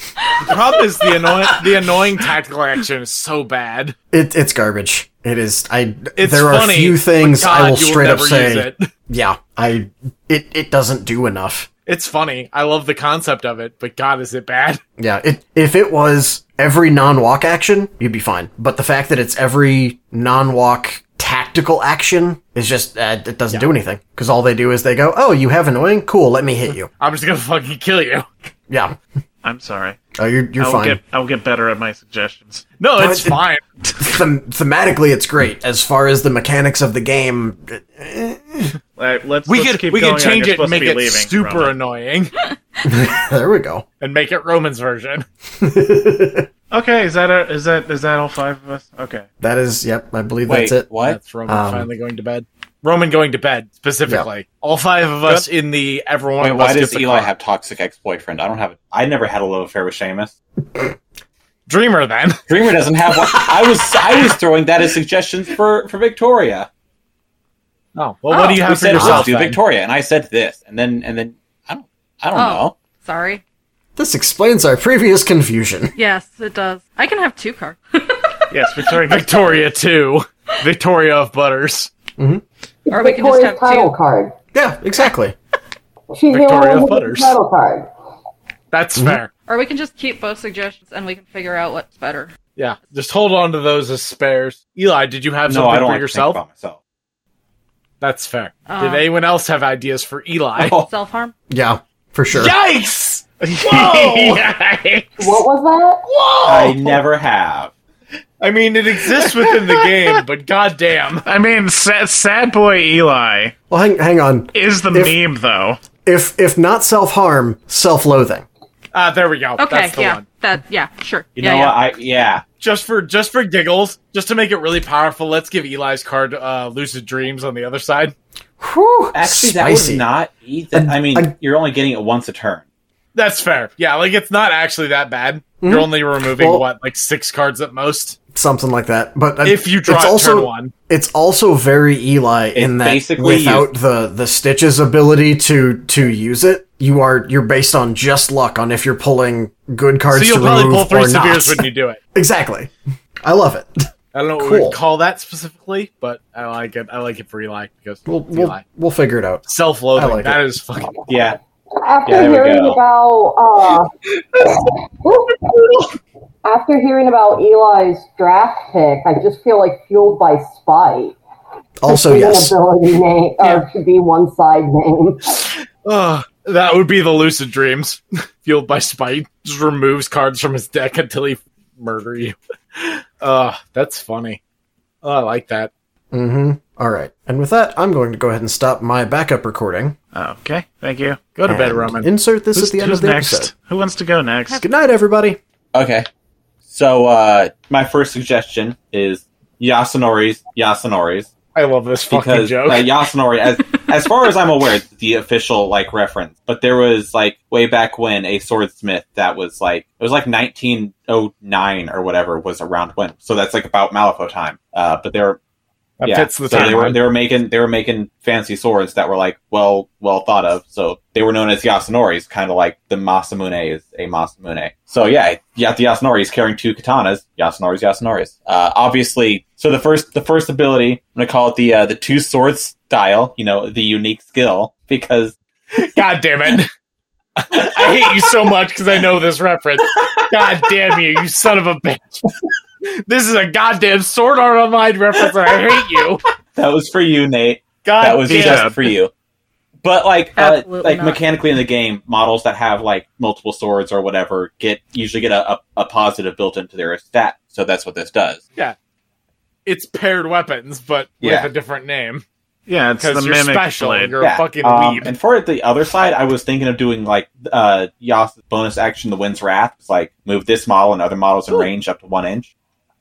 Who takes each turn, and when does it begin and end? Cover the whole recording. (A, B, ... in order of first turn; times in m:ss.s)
0:00.4-0:04.0 A
0:04.1-0:11.7 B
0:06.2-0:08.9 A
0:11.8-0:14.8 A
0:15.0-0:26.9 B
0:27.0-0:28.3 A
0:28.7-0:29.0 B
0:29.4-0:30.0 C
0:30.2-0:31.0 B
0:30.6-0:32.7 C
0:32.8-0:33.6 A
0:33.0-0:33.4 B
0:34.0-0:38.8 B
0:39.0-0:41.7 C
0:39.4-0:42.3 A
0:42.8-0:43.8 B
0:44.0-0:45.2 A
0:45.6-0:46.5 B
0:46.7-0:49.2 C
0:49.4-0:50.9 B
0:50.5-0:51.2 D
0:51.0-0:57.3 A
0:51.4-0:51.9 B
0:56.4-1:00.3 D
1:01.7-1:02.4 A
1:02.5-1:06.7 D
1:07.9-1:09.6 A
1:08.3-1:08.6 E
1:08.5-1:12.8 D
1:08.9-1:09.3 B
1:12.3-1:13.4 E
1:14.0-1:15.9 B
1:16.0-1:18.5 E
1:18.5-1:19.6 C
1:19.0-1:21.9 A
1:22.2-1:22.4 B
1:22.9-1:24.3 F
1:22.9-1:23.9 E
1:24.5-1:25.3 B
1:26.1-1:27.9 F
1:26.3-1:27.4 A
1:28.7-1:29.3 A
1:29.4-1:32.3 E
1:32.6-1:36.4 A
1:35.4-1:36.8 D
1:38.0-1:40.8 A
1:38.6-1:39.0 E
1:40.6-1:40.9 D
1:40.8-1:41.3 E
1:41.5-1:42.5 B
1:42.3-1:44.4 A
1:43.5-1:45.4 C
1:45.2-1:46.0 F
1:46.1-1:47.0 A
1:46.4-1:47.7 D
1:48.4-1:51.2 A
1:49.2-1:50.2 C
1:51.2-1:53.5 C
1:53.7-1:55.2 B
1:54.5-1:55.8 C
1:56.0-1:58.4 B
1:58.9-2:00.2 A
1:59.6-2:01.8 E
2:01.3-2:02.4 D
2:02.6-2:08.1 A
2:08.6-2:10.0 B
2:09.1-2:12.6 D
2:10.7-2:11.3 B
2:13.1-2:18.2 A
2:15.6-2:16.6 B
2:18.3-2:32.7 B
2:19.4-2:20.7 A
2:22.5-2:23.7 D
2:30.1-2:32.0 A
2:33.2-2:34.8 B
2:34.1-2:38.6 A
2:38.1-2:40.4 B
2:39.5-2:41.0 A
2:41.1-2:41.4 D
2:41.8-2:45.4 F
2:42.0-2:42.8 D
2:46.4-2:51.2 F
2:51.8-2:52.5 B
2:51.9-2:55.4 F
2:55.8-3:04.4 A
3:05.0-3:05.7 A
3:06.1-3:10.0 B
3:10.1-3:11.2 C
3:11.3-3:12.1 A
3:11.4-3:13.5 B
3:12.5-3:14.6 C
3:14.6-3:15.4 B
3:15.7-3:16.1 D
3:16.6-3:21.3 D
3:21.5-3:22.9 A
3:22.1-3:35.4 D
3:36.0-3:37.0 A
3:36.0-3:55.4 D
3:55.7-3:56.7 A
3:57.4-4:02.2 A
3:57.6-3:58.2 D
4:02.8-4:06.2 A
4:06.6-4:09.1 D
4:07.8-4:08.8 A
4:08.3-4:08.8 C
4:09.8-4:18.4 D
4:10.4-4:11.2 E
4:19.6-4:22.2 A
4:21.2-4:21.5 D
4:22.7-4:24.2 C
4:23.0-4:25.1 A
4:24.2-4:32.5 D